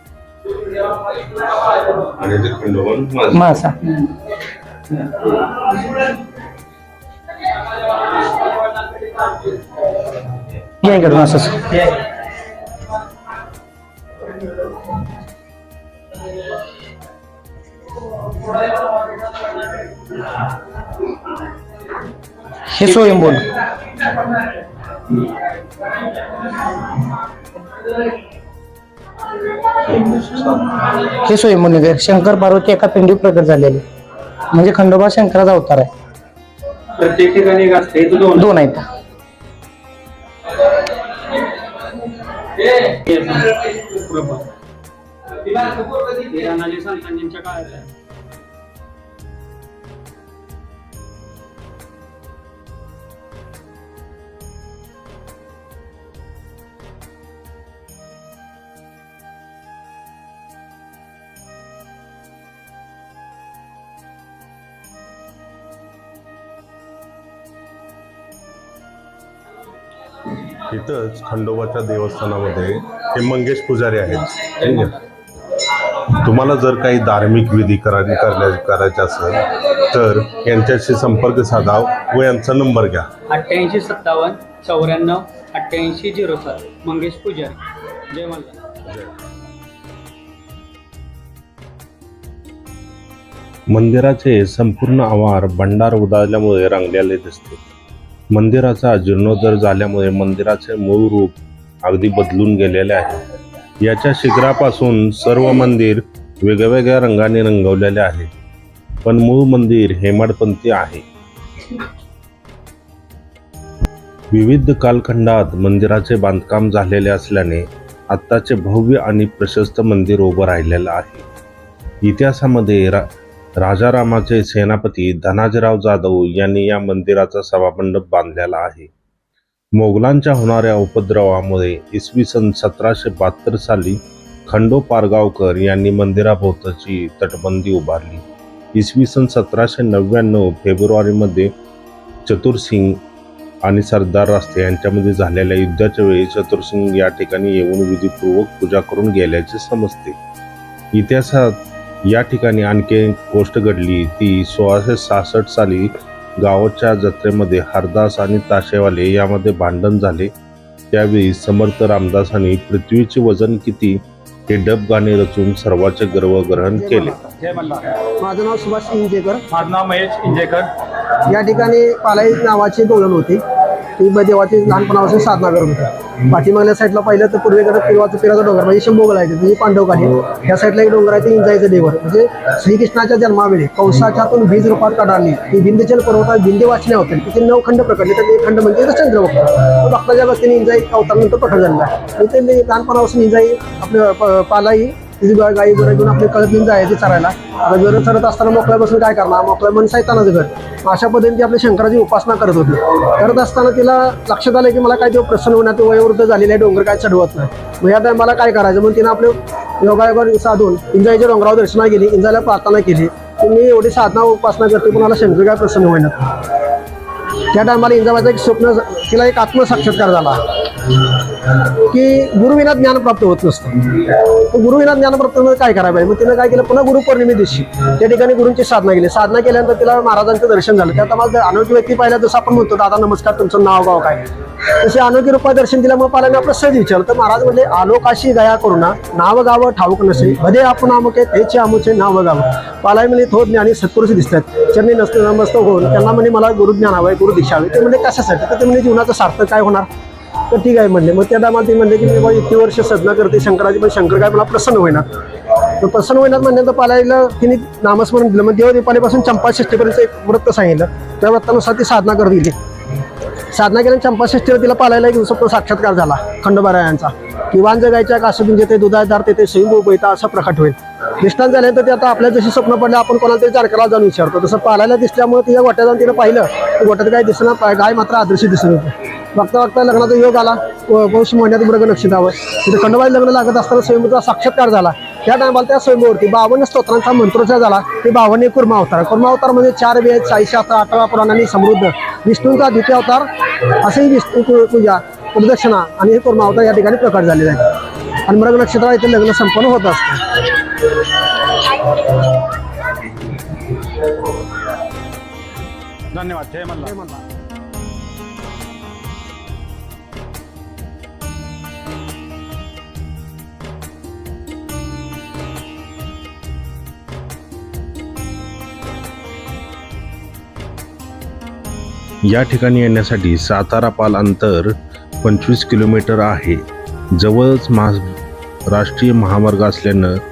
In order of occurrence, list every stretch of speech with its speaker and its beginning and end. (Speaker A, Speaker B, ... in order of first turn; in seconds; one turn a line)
Speaker A: 2.0-3.5
Speaker B: 3.3-4.0
Speaker B: 10.8-11.7
Speaker C: 11.7-12.0
Speaker B: 22.7-23.5
Speaker C: 22.9-23.4
Speaker A: 30.0-30.5
Speaker B: 30.9-33.8
Speaker B: 34.5-35.9
Speaker C: 37.0-38.5
Speaker B: 38.3-38.8
Speaker C: 42.5-44.5
Speaker C: 45.4-47.9
Speaker A: 70.7-75.0
Speaker C: 74.3-75.0
Speaker A: 75.9-83.1
Speaker C: 83.3-88.6
Speaker A: 88.8-89.1
Speaker A: 93.7-97.6
Speaker A: 98.3-103.2
Speaker A: 103.8-108.3
Speaker A: 109.0-111.0
Speaker A: 114.3-121.2
Speaker A: 122.0-123.0
Speaker A: 123.6-128.9
Speaker A: 129.7-141.5
Speaker A: 142.2-143.0
Speaker A: 143.6-150.2
Speaker A: 150.9-160.3
Speaker A: 160.9-167.2
Speaker D: 166.8-167.3
Speaker C: 167.4-167.8
Speaker D: 168.2-169.4
Speaker C: 169.5-170.7
Speaker D: 171.2-173.4
Speaker D: 174.0-216.3
Speaker D: 217.5-220.4
Speaker D: 221.8-234.2
Speaker D: 234.8-249.9
Speaker D: 250.5-255.1
Speaker D: 255.8-262.6
Speaker D: 263.5-300.5
Speaker C: 306.1-306.8
Speaker D: 306.7-307.2
Speaker A: 322.2-326.6
Speaker A: 327.1-328.1
Speaker A: 328.7-330.1